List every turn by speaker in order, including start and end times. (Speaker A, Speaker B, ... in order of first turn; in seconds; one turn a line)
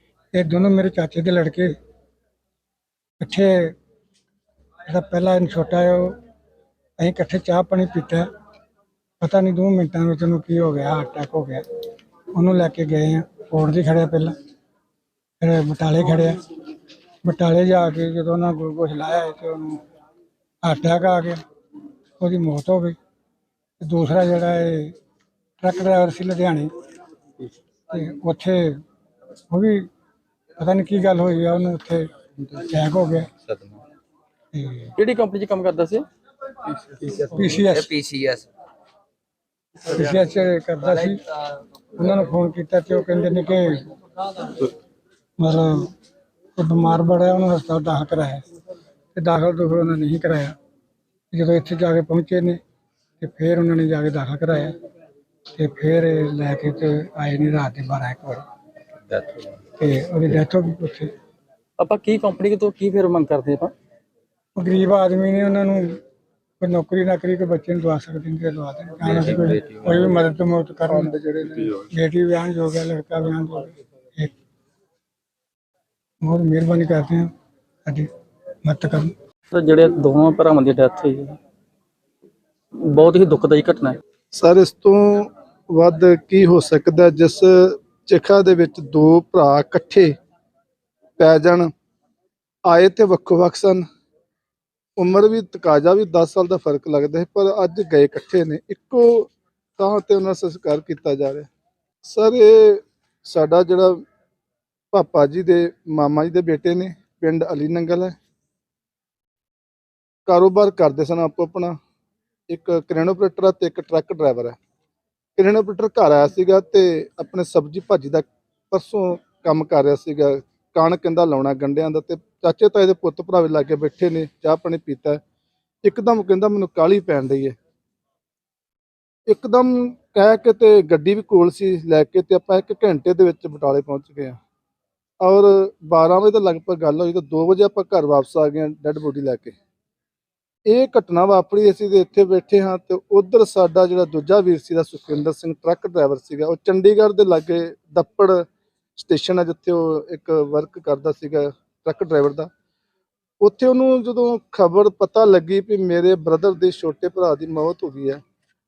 Speaker A: 0.3-1.7
Speaker A: 3.2-3.7
Speaker A: 4.9-6.2
Speaker A: 7.0-8.3
Speaker A: 9.2-11.6
Speaker A: 12.3-14.3
Speaker A: 15.4-16.4
Speaker A: 17.2-19.8
Speaker A: 20.6-21.4
Speaker A: 22.2-22.9
Speaker A: 23.8-24.9
Speaker A: 25.6-26.7
Speaker A: 27.9-28.8
Speaker A: 29.5-29.9
Speaker A: 30.6-33.3
Speaker B: 33.4-33.8
Speaker A: 34.5-34.9
Speaker C: 35.0-36.0
Speaker B: 37.2-38.5
Speaker A: 37.2-37.9
Speaker A: 39.8-41.2
Speaker A: 41.9-43.8
Speaker A: 45.4-45.9
Speaker A: 46.6-48.4
Speaker A: 49.1-50.5
Speaker A: 51.3-52.6
Speaker A: 53.2-54.8
Speaker A: 55.5-58.4
Speaker B: 59.1-59.5
Speaker A: 59.8-61.1
Speaker C: 61.8-63.7
Speaker A: 64.5-66.0
Speaker A: 66.6-71.1
Speaker B: 69.0-70.0
Speaker D: 70.9-71.8
Speaker A: 71.8-74.3
Speaker A: 76.2-77.3
Speaker A: 78.6-79.1
Speaker C: 79.5-81.4
Speaker C: 82.8-84.0
Speaker D: 84.3-90.1
Speaker D: 91.2-91.7
Speaker D: 92.7-93.8
Speaker D: 95.0-101.5
Speaker D: 102.0-104.0
Speaker D: 104.9-108.2
Speaker D: 110.3-111.8
Speaker D: 112.5-114.6
Speaker D: 115.3-125.2
Speaker D: 125.8-127.5
Speaker D: 129.3-134.4
Speaker D: 135.2-139.6
Speaker D: 140.7-148.4
Speaker D: 148.9-152.5
Speaker D: 153.4-158.2